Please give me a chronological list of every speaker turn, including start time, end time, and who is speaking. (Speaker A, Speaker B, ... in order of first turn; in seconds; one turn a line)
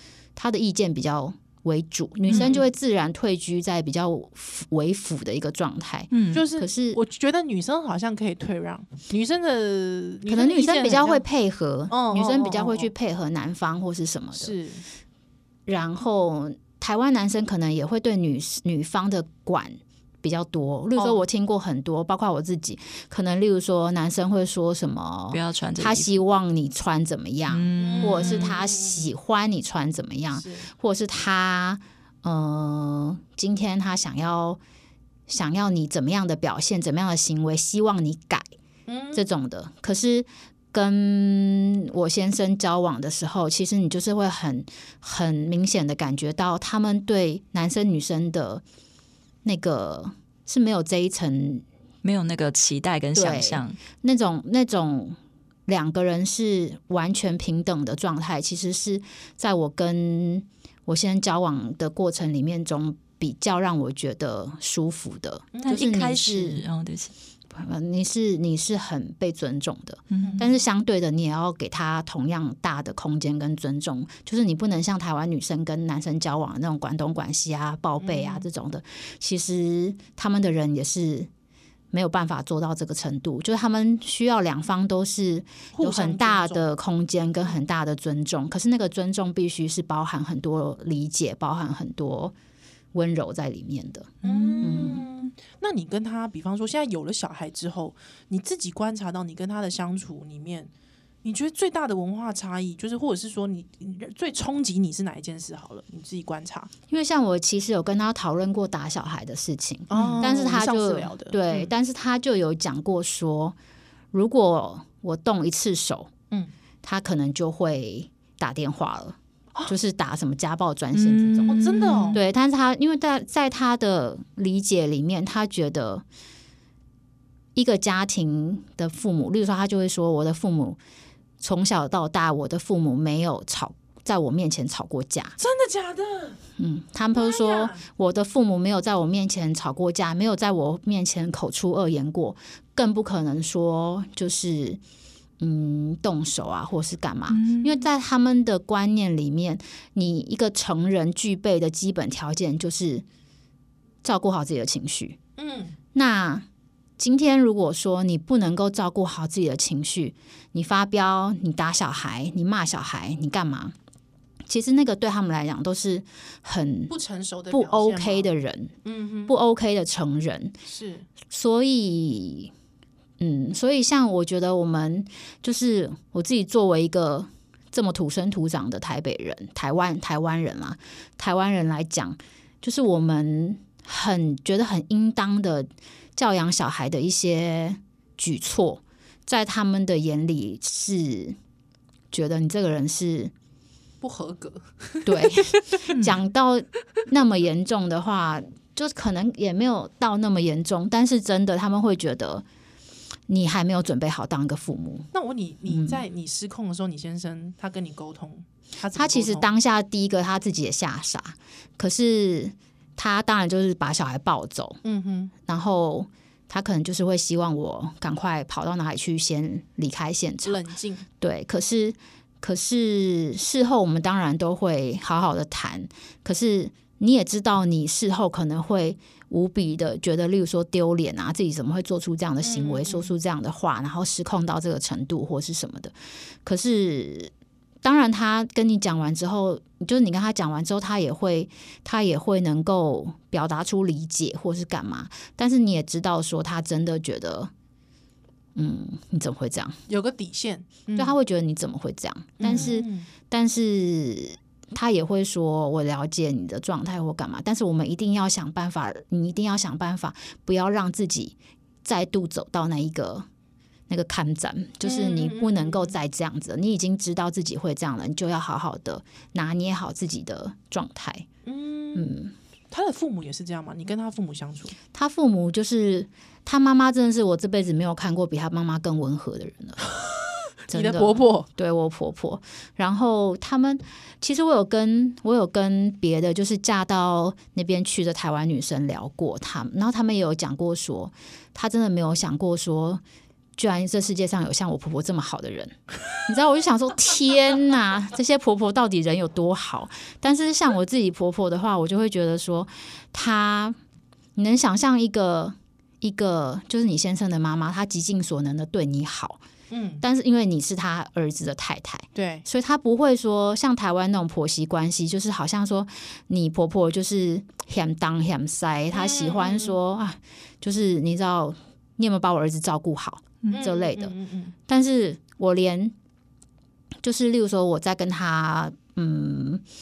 Speaker A: 0.3-7.0
Speaker B: 2.3-2.6
Speaker C: 6.1-6.4
Speaker B: 6.3-11.2
Speaker A: 10.3-14.5
Speaker B: 11.9-12.9
Speaker B: 14.3-14.8
Speaker A: 15.7-34.6
Speaker C: 25.3-26.2
Speaker C: 27.5-28.5
Speaker B: 27.8-29.1
Speaker B: 30.3-30.7
Speaker A: 35.3-38.4
Speaker B: 38.9-39.2
Speaker A: 39.1-48.6
Speaker A: 49.4-51.6
Speaker C: 52.0-53.8
Speaker A: 53.1-66.6
Speaker B: 65.5-65.9
Speaker C: 65.7-67.1
Speaker A: 67.5-81.3
Speaker C: 70.1-70.4
Speaker B: 70.2-70.5
Speaker B: 78.0-78.4
Speaker A: 81.9-92.3
Speaker B: 85.7-86.7
Speaker A: 92.9-95.0
Speaker C: 94.2-95.0
Speaker B: 94.2-100.7
Speaker B: 101.2-106.7
Speaker A: 106.9-113.5
Speaker B: 109.9-111.7
Speaker C: 109.9-110.2
Speaker A: 114.1-116.1
Speaker A: 116.8-126.0
Speaker C: 120.9-122.2
Speaker B: 121.5-122.2
Speaker A: 127.5-130.8
Speaker A: 131.4-135.4
Speaker B: 135.4-136.4
Speaker A: 136.6-144.8
Speaker B: 137.1-137.8
Speaker A: 145.4-153.0
Speaker C: 147.3-147.8
Speaker A: 154.0-155.2
Speaker B: 155.4-155.7
Speaker A: 155.9-156.4
Speaker A: 157.0-163.7
Speaker A: 164.5-166.9
Speaker B: 166.9-168.3
Speaker A: 167.5-168.7
Speaker B: 168.8-169.3
Speaker A: 169.3-170.5
Speaker B: 170.7-171.1
Speaker A: 171.3-172.5
Speaker A: 173.2-191.4
Speaker A: 192.1-193.3
Speaker B: 194.0-195.6
Speaker A: 195.0-202.4
Speaker C: 195.9-196.1
Speaker A: 203.3-205.1
Speaker B: 205.1-209.5
Speaker A: 205.7-206.0
Speaker A: 208.9-214.8
Speaker B: 214.8-215.3
Speaker A: 215.4-220.6
Speaker B: 220.4-221.1
Speaker A: 221.2-235.9
Speaker B: 232.4-233.1
Speaker A: 236.4-247.5
Speaker A: 248.5-249.8
Speaker B: 249.9-251.1
Speaker A: 250.9-263.2
Speaker B: 252.4-253.1
Speaker A: 263.9-271.3
Speaker B: 264.8-265.9
Speaker B: 271.4-272.1
Speaker A: 271.9-272.3
Speaker B: 272.7-274.8
Speaker A: 274.9-279.8
Speaker B: 280.7-281.5
Speaker A: 280.7-293.0
Speaker A: 293.6-303.8
Speaker A: 304.4-309.4
Speaker B: 309.7-310.0
Speaker A: 310.0-324.1
Speaker B: 312.1-312.4
Speaker B: 318.9-319.8
Speaker B: 323.5-324.5
Speaker A: 324.7-325.9
Speaker A: 327.0-329.6